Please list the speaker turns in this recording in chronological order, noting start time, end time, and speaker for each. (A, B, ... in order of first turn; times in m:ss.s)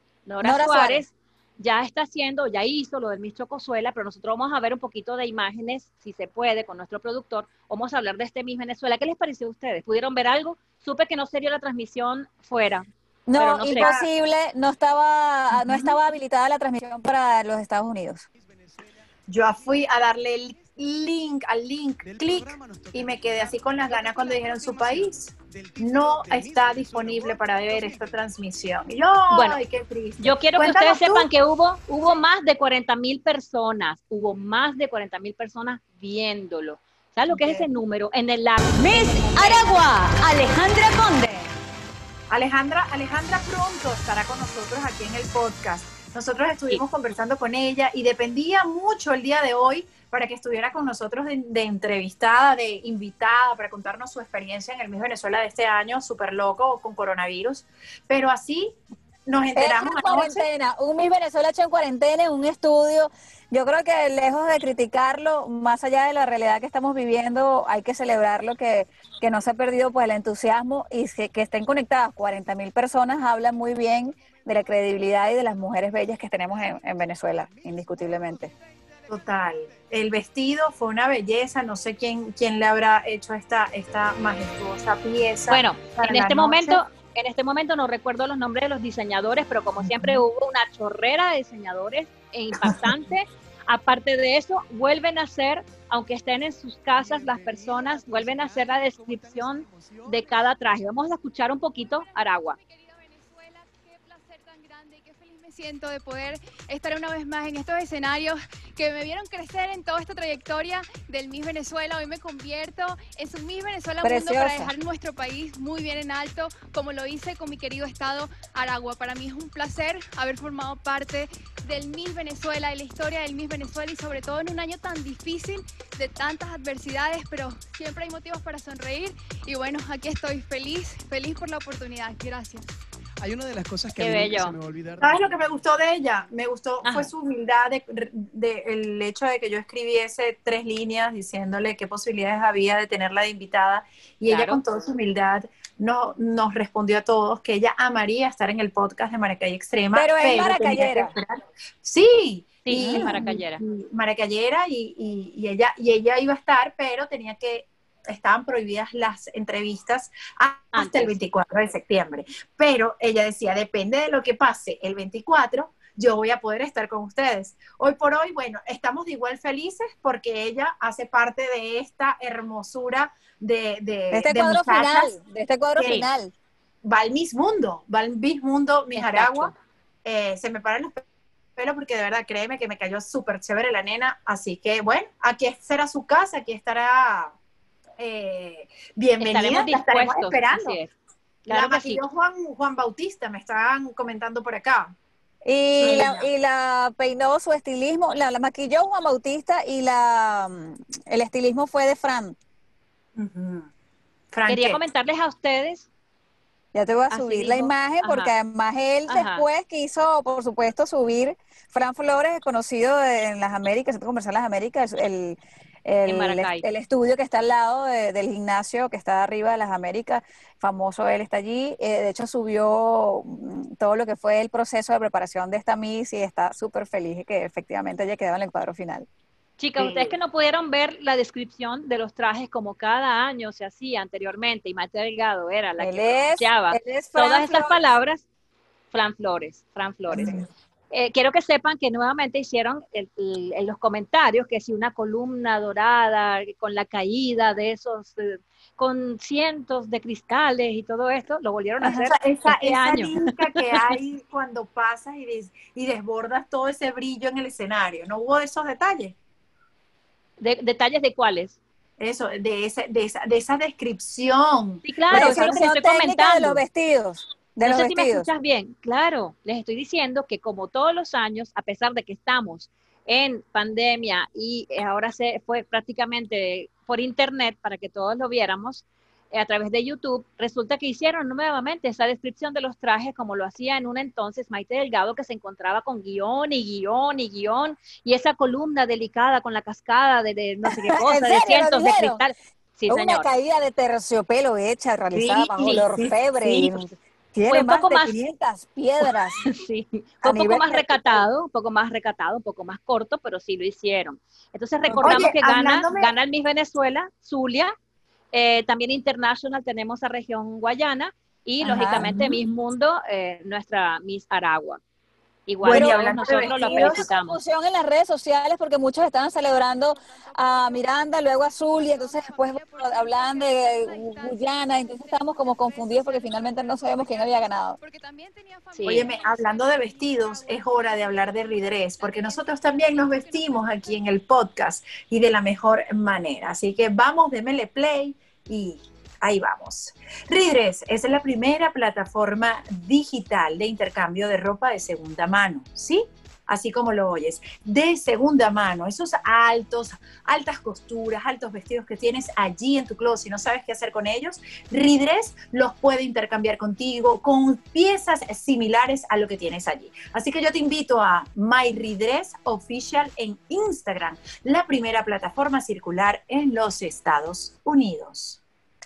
0:00.3-0:13.9 A
0:00.4-0:01.0 B
0:13.3-0:18.2 B
0:13.7-0:14.1 C
0:15.5-0:16.0 C
0:18.4-0:20.9 D
0:19.3-0:31.3 C
0:22.0-0:29.0 D
0:29.3-0:29.6 A
0:30.2-0:39.7 A
0:37.3-0:37.7 C
0:38.8-0:41.5 E
0:39.0-0:39.6 C
0:42.3-1:00.5 C
0:59.6-1:18.5 B
1:14.1-1:20.8 D
1:19.1-1:26.8 C
1:21.4-1:25.0 D
1:25.5-1:42.6 A
1:25.6-1:27.0 D
1:36.9-1:40.6 D
1:41.8-2:12.7 F
1:54.0-1:54.7 B
2:13.2-2:16.1 D
2:14.0-2:14.6 A
2:15.0-2:55.1 C
2:16.8-2:17.1 A
2:24.3-2:24.6 A
2:29.9-2:31.1 B
2:32.6-2:33.6 A
2:32.8-2:33.2 B
2:40.7-2:41.2 A
2:54.1-2:56.3 B
2:55.8-2:56.1 C
2:56.8-2:59.5 C
2:59.0-2:59.5 A
3:00.0-3:01.0 C
3:01.6-3:07.3 C
3:08.0-3:10.8 C
3:09.2-3:10.9 A
3:11.5-3:12.0 A
3:11.5-3:15.0 C
3:15.4-3:22.4 B
3:15.8-3:16.2 C
3:15.8-3:16.2 A
3:23.2-3:23.7 C
3:24.3-3:24.8 C
3:24.5-3:25.9 A
3:26.7-3:49.1 B
3:27.1-3:28.3 A
3:29.1-3:29.4 A
3:36.0-3:36.6 A
3:49.6-3:58.3 A
3:49.8-3:50.2 C
3:55.8-3:57.8 B
3:58.9-4:13.2 A
4:00.1-4:00.4 C
4:11.8-4:19.2 C
4:20.4-4:21.6 A
4:22.0-4:25.6 C
4:24.8-4:26.6 A
4:25.1-4:28.3 B
4:27.6-4:53.3 A
4:50.9-4:52.2 B
4:52.9-4:59.5 B
4:55.1-4:56.8 C
4:57.5-4:58.2 A
4:59.4-5:07.7 A
5:00.2-5:01.3 B
5:04.9-5:05.2 B
5:05.0-5:06.1 C
5:08.3-5:14.8 A
5:11.6-5:12.4 B
5:15.5-5:17.4 A
5:15.6-5:17.0 C
5:15.6-5:27.8 B
5:20.1-5:34.2 F
5:28.7-5:29.1 A
5:28.9-6:08.4 C